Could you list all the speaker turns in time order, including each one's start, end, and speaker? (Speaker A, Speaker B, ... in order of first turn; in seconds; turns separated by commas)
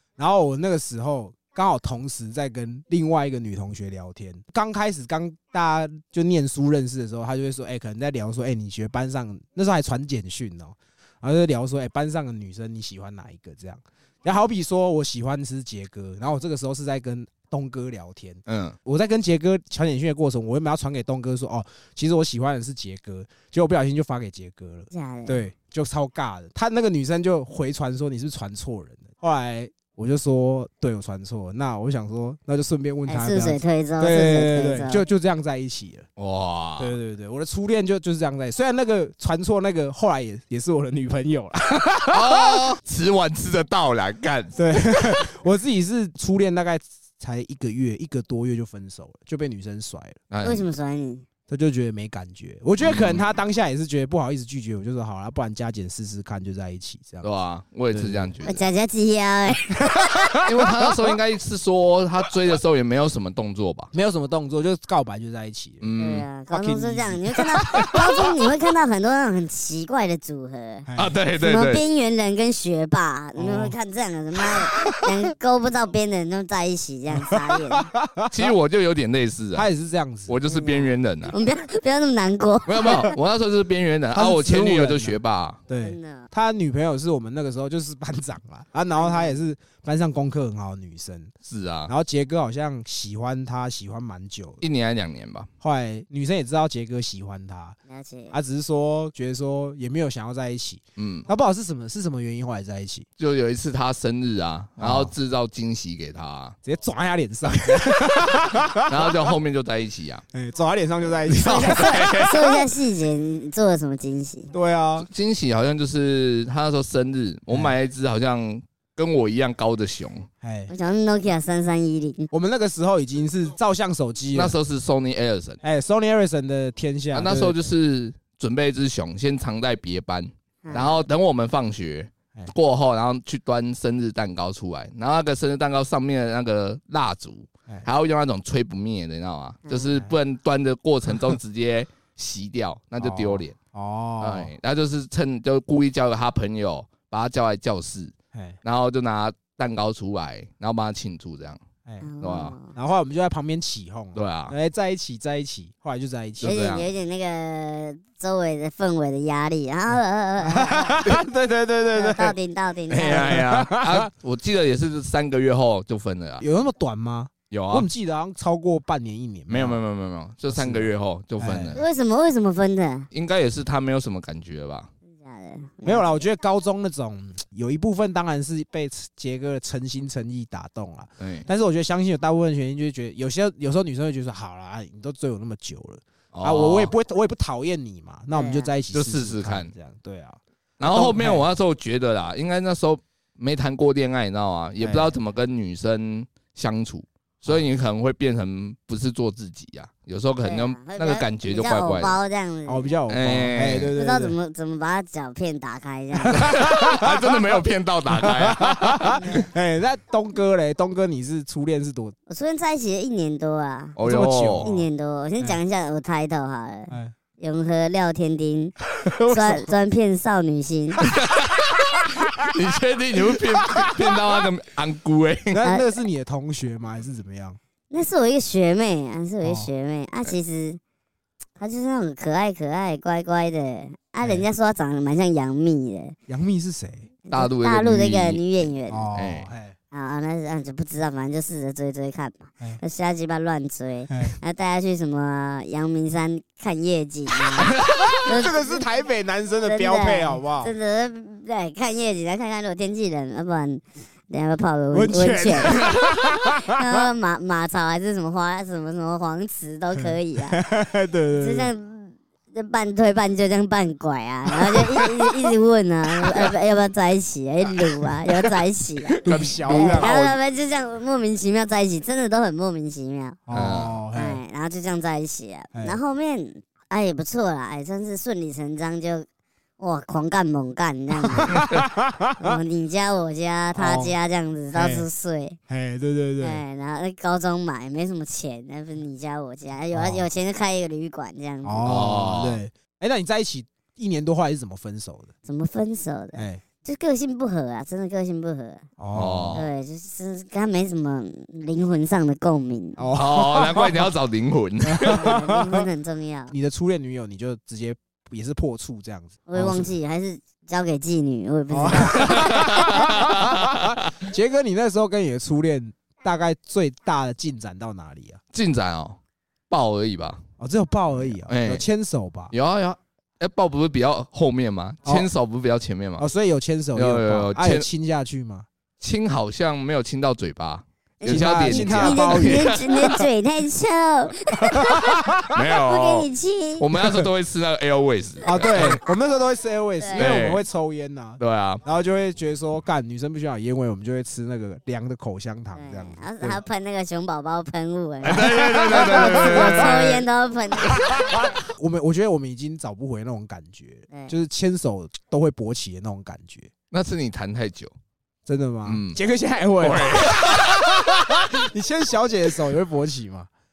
Speaker A: 0.2-36.1, Speaker B: 18.5-18.8, Speaker C: 24.9-25.4, Speaker C: 33.0-35.0, Speaker B: 36.2-37.0, Speaker A: 36.8-42.6, Speaker B: 42.1-45.2, Speaker A: 44.5-50.2, Speaker B: 50.3-50.7, Speaker C: 50.4-51.2, Speaker A: 51.5-57.2, Speaker B: 52.8-53.2, Speaker B: 57.2-58.7, Speaker A: 57.9-58.3, Speaker C: 58.4-59.8, Speaker A: 59.7-61.1, Speaker B: 60.4-63.9, Speaker A: 63.9-65.9, Speaker B: 65.8-66.2, Speaker C: 66.0-77.9, Speaker A: 66.5-68.3, Speaker A: 70.8-71.1, Speaker B: 71.0-71.8, Speaker A: 73.4-73.7, Speaker A: 74.5-75.0, Speaker A: 77.2-78.5, Speaker B: 78.3-79.7, Speaker A: 79.5-80.3, Speaker B: 80.3-81.3, Speaker C: 80.5-83.2, Speaker B: 82.7-85.6, Speaker A: 84.1-91.3, Speaker C: 85.8-86.3, Speaker C: 89.0-89.4, Speaker B: 91.4-91.9, Speaker A: 91.9-94.6, Speaker B: 94.6-95.5, Speaker A: 95.6-97.8, Speaker C: 97.9-98.3, Speaker A: 98.3-103.1, Speaker B: 101.0-101.3, Speaker B: 103.2-106.5, Speaker A: 104.8-105.1, Speaker A: 106.6-109.3, Speaker B: 108.9-110.2, Speaker A: 110.3-112.3, Speaker B: 111.3-112.5, Speaker C: 111.4-114.5, Speaker A: 114.5-115.1, Speaker B: 115.0-120.3, Speaker A: 117.5-117.8, Speaker A: 120.4-120.7, Speaker C: 120.7-122.3, Speaker A: 122.3-124.5, Speaker B: 124.3-125.6, Speaker A: 125.6-127.6, Speaker B: 127.1-143.6, Speaker C: 130.6-131.0, Speaker C: 139.7-139.9, Speaker A: 143.0-144.5, Speaker B: 144.2-151.6, Speaker A: 148.3-148.6, Speaker C: 152.0-152.7, Speaker B: 152.2-152.5, Speaker A: 152.7-156.6, Speaker B: 154.1-154.5, Speaker B: 156.4-156.8, Speaker C: 156.4-161.0, Speaker A: 160.4-162.3, Speaker C: 161.9-163.4, Speaker B: 162.9-166.4, Speaker A: 163.1-164.1, Speaker A: 166.4-169.8, Speaker B: 167.5-167.9, Speaker B: 169.5-171.8, Speaker A: 170.5-171.8, Speaker C: 171.7-173.1, Speaker B: 173.1-174.9, Speaker C: 175.1-176.1, Speaker A: 175.8-191.4, Speaker B: 181.2-181.4, Speaker B: 186.3-186.9, Speaker C: 188.3-188.7, Speaker B: 188.9-189.7, Speaker B: 190.8-202.2, Speaker A: 194.8-195.1, Speaker C: 200.4-202.9, Speaker A: 202.7-204.3, Speaker B: 203.1-203.9, Speaker C: 203.9-206.5, Speaker A: 206.2-212.2, Speaker B: 206.4-209.2, Speaker C: 209.1-209.4, Speaker C: 212.3-214.0, Speaker B: 214.0-214.7, Speaker A: 214.0-214.9, Speaker C: 214.6-218.8, Speaker A: 219.0-219.7, Speaker C: 219.3-221.0, Speaker B: 221.1-225.7, Speaker A: 223.2-224.1, Speaker A: 225.5-227.6, Speaker C: 227.9-230.8, Speaker A: 229.4-229.7, Speaker C: 231.6-236.2, Speaker A: 236.3-237.1, Speaker C: 237.3-239.1, Speaker B: 237.3-238.4, Speaker A: 238.9-239.8, Speaker B: 239.1-239.5, Speaker C: 239.9-248.8, Speaker A: 244.1-244.4, Speaker A: 247.6-250.7, Speaker B: 247.7-248.2, Speaker C: 249.6-255.9, Speaker A: 254.9-257.0, Speaker C: 256.6-260.6, Speaker A: 260.0-261.7, Speaker C: 261.3-273.4, Speaker A: 264.6-265.5, Speaker A: 266.2-266.5, Speaker A: 269.2-270.3, Speaker B: 269.2-270.2, Speaker A: 273.5-274.4, Speaker B: 273.5-274.0, Speaker C: 274.1-279.2, Speaker C: 279.8-281.6, Speaker A: 281.2-282.6, Speaker B: 281.6-281.9, Speaker C: 282.4-285.6, Speaker A: 283.8-284.1, Speaker A: 284.7-285.1, Speaker A: 285.7-286.6, Speaker C: 286.4-291.9, Speaker A: 289.9-290.2, Speaker A: 291.6-295.3, Speaker B: 291.8-292.6, Speaker C: 295.4-298.9, Speaker A: 296.3-296.6, Speaker A: 299.0-299.6, Speaker B: 299.1-299.7, Speaker C: 299.5-303.0, Speaker A: 303.0-304.1, Speaker B: 303.1-305.2, Speaker A: 304.8-305.9, Speaker C: 305.0-306.5, Speaker A: 306.5-309.9, Speaker C: 309.5-312.6, Speaker A: 311.7-318.4, Speaker B: 312.1-314.1, Speaker B: 318.5-319.2, Speaker B: 319.7-320.4, Speaker A: 320.6-322.5, Speaker B: 321.1-321.8, Speaker B: 322.5-326.2, Speaker A: 326.2-328.7, Speaker B: 326.9-327.9, Speaker B: 329.0-333.2, Speaker C: 331.2-335.2, Speaker A: 331.2-332.8, Speaker A: 334.6-335.6, Speaker B: 335.5-339.0, Speaker C: 335.7-336.9, Speaker A: 336.9-337.3, Speaker A: 338.4-346.6, Speaker C: 340.0-340.3, Speaker B: 340.1-340.6, Speaker B: 341.4-341.8, Speaker C: 345.7-351.4, Speaker B: 348.2-350.2, Speaker A: 348.3-350.1, Speaker A: 350.9-356.7, Speaker B: 356.9-357.9, Speaker A: 358.4-363.5, Speaker B: 358.9-359.2, Speaker B: 359.8-360.8